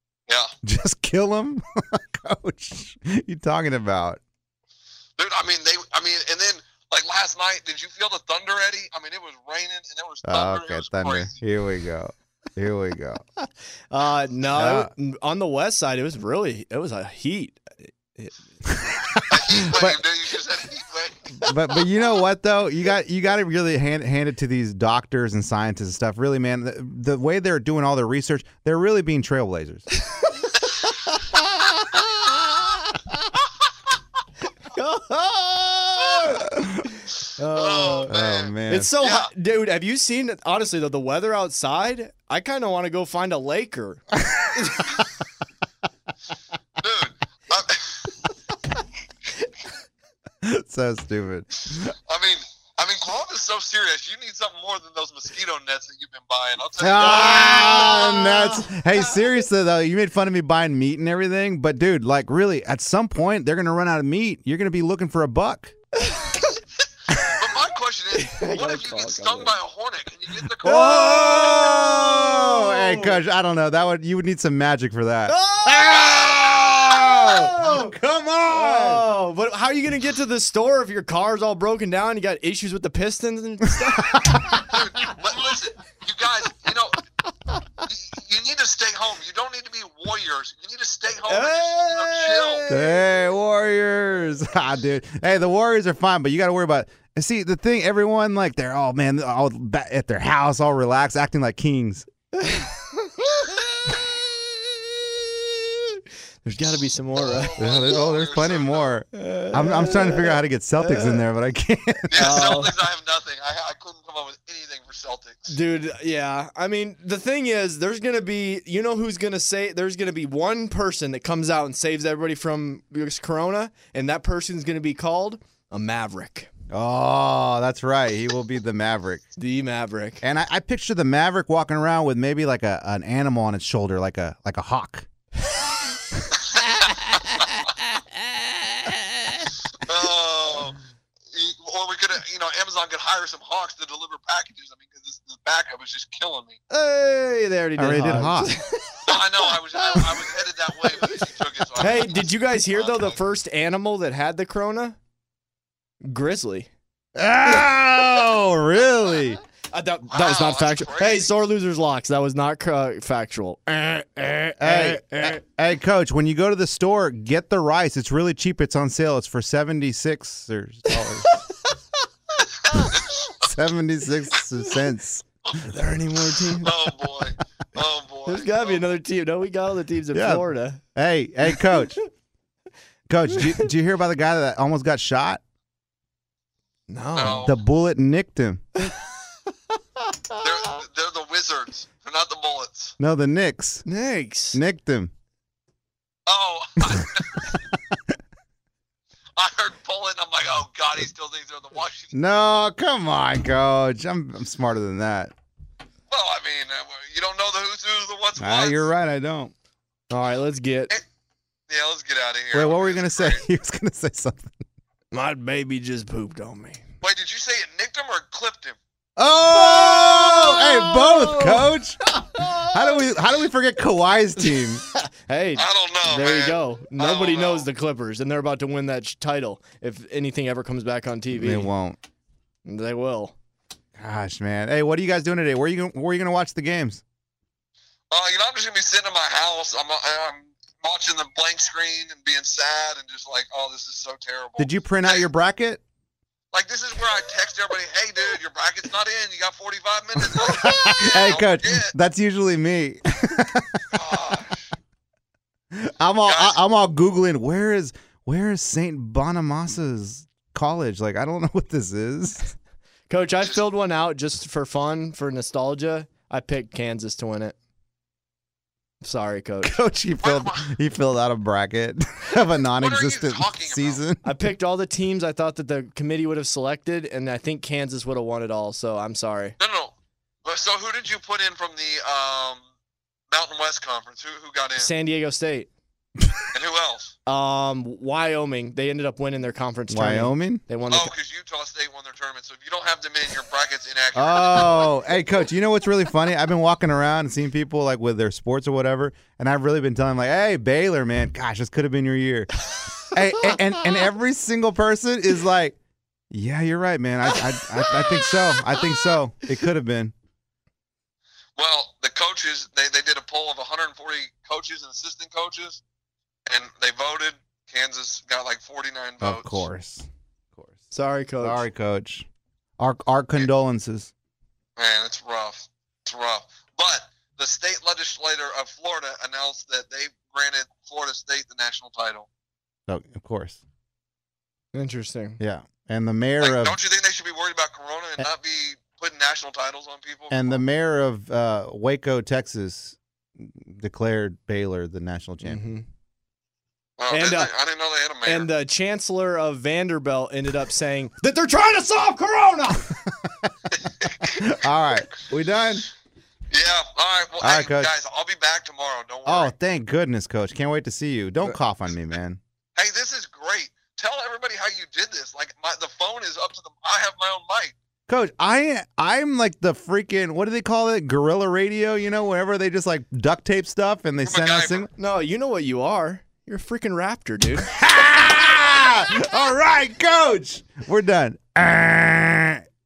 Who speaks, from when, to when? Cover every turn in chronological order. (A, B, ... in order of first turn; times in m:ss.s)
0:00.6-0:04.2 A
0:05.2-0:11.4 B
0:10.2-0:13.2 A
0:13.9-0:18.3 C
0:14.5-0:14.9 A
0:18.7-0:20.0 A
0:19.3-0:21.3 B
0:21.4-0:29.8 A
0:30.1-0:33.2 C
0:34.7-0:38.1 C
0:37.5-0:39.3 B
0:38.1-0:38.9 A
0:38.7-0:44.9 C
0:44.2-0:44.8 A
0:46.8-0:48.1 B
0:50.4-0:51.9 A
0:52.1-0:57.4 B
0:56.8-1:05.7 A
0:57.0-0:59.2 C
1:06.0-1:06.6 C
1:07.2-1:11.3 B
1:08.2-1:09.6 C
1:10.6-1:19.1 A
1:10.6-1:13.2 C
1:15.3-1:16.3 C
1:15.9-1:16.9 B
1:16.9-1:17.9 C
1:18.5-1:24.5 C
1:24.0-1:25.4 A
1:24.7-1:27.0 B
1:27.8-1:32.6 B
1:31.3-1:33.0 C
1:32.7-1:42.1 A
1:42.4-1:43.6 C
1:45.2-1:47.6 C
1:47.3-1:48.9 B
1:47.6-1:52.6 A
1:49.1-1:51.2 C
1:52.1-1:52.7 C
1:52.1-1:55.5 B
1:55.5-2:06.5 C
2:06.7-2:09.2 A
2:09.4-2:10.2 C
2:10.2-2:15.1 A
2:16.6-2:17.4 B
2:19.8-2:20.8 B
2:21.3-2:26.6 B
2:26.7-2:30.0 C
2:27.8-2:28.6 A
2:29.0-2:33.2 B
2:31.8-2:35.0 C
2:36.0-2:36.7 C
2:37.2-2:39.4 A
2:39.7-2:45.4 C
2:40.1-2:41.3 B
2:44.6-2:51.4 A
2:50.9-2:51.7 C
2:52.7-2:52.9 C
2:52.7-2:53.4 B
2:53.3-2:55.2 A
2:55.6-2:56.7 C
2:56.6-2:59.0 B
2:58.2-3:00.8 C
3:00.1-3:02.0 A
3:03.1-3:05.4 A
3:03.3-3:03.6 C
3:06.9-3:07.5 C
3:07.1-3:07.6 B
3:07.4-3:08.6 A
3:08.8-3:09.0 C
3:10.1-3:10.8 C
3:10.4-3:12.9 B
3:13.0-3:13.8 A
3:13.8-3:14.6 C
3:14.5-3:15.1 A
3:16.3-3:17.6 B
3:19.4-3:22.1 B
3:22.1-3:25.3 A
3:26.1-3:28.9 B
3:28.4-3:29.5 A
3:30.1-3:30.9 C
3:31.7-3:33.4 B
3:32.5-3:34.6 A
3:35.1-3:36.8 C
3:37.0-3:38.8 B
3:39.2-3:44.8 A
3:39.5-3:43.0 C
3:44.4-3:51.7 C
3:45.6-3:47.7 B
3:51.3-3:52.0 A
3:52.6-3:53.3 C
3:54.0-3:57.0 A
3:58.1-4:05.3 B
4:04.6-4:05.8 A
4:06.5-4:11.9 B
4:10.2-4:13.8 A
4:13.9-4:14.7 B
4:15.7-4:22.5 A
4:16.2-4:16.6 B
4:23.1-4:27.5 C
4:29.0-4:29.7 C
4:29.6-4:34.3 A
4:30.2-4:30.7 B
4:32.8-4:34.0 B
4:34.2-4:39.5 C
4:39.6-4:39.9 B
4:40.4-4:42.6 B
4:43.3-4:44.9 B
4:44.8-4:45.7 C
4:46.5-4:47.1 B
4:47.3-4:51.1 C
4:49.9-4:50.6 A
4:50.9-4:54.9 B
4:54.1-5:02.5 A
5:03.1-5:05.8 A
5:06.3-5:10.1 A
5:07.5-5:08.8 C
5:11.6-5:15.8 B
5:16.5-5:19.6 B
5:19.2-5:20.8 A
5:20.9-5:21.6 C
5:21.4-5:22.3 A
5:22.8-5:24.1 A
5:24.8-5:32.3 B
5:32.9-5:33.6 A
5:34.7-5:35.4 C
5:35.4-5:36.8 A
5:36.4-5:40.6 B
5:40.3-5:45.6 A
5:45.4-5:45.8 C
5:47.0-5:48.5 B
5:47.1-5:47.5 C
5:48.2-5:52.9 C
5:53.0-5:55.8 A
5:53.8-5:54.4 B
5:56.5-5:59.5 B
5:57.4-5:57.9 A
5:59.2-6:02.4 A
6:02.8-6:07.7 B
6:08.1-6:14.9 A
6:14.2-6:14.9 B
6:15.0-6:17.7 C
6:17.6-6:22.6 A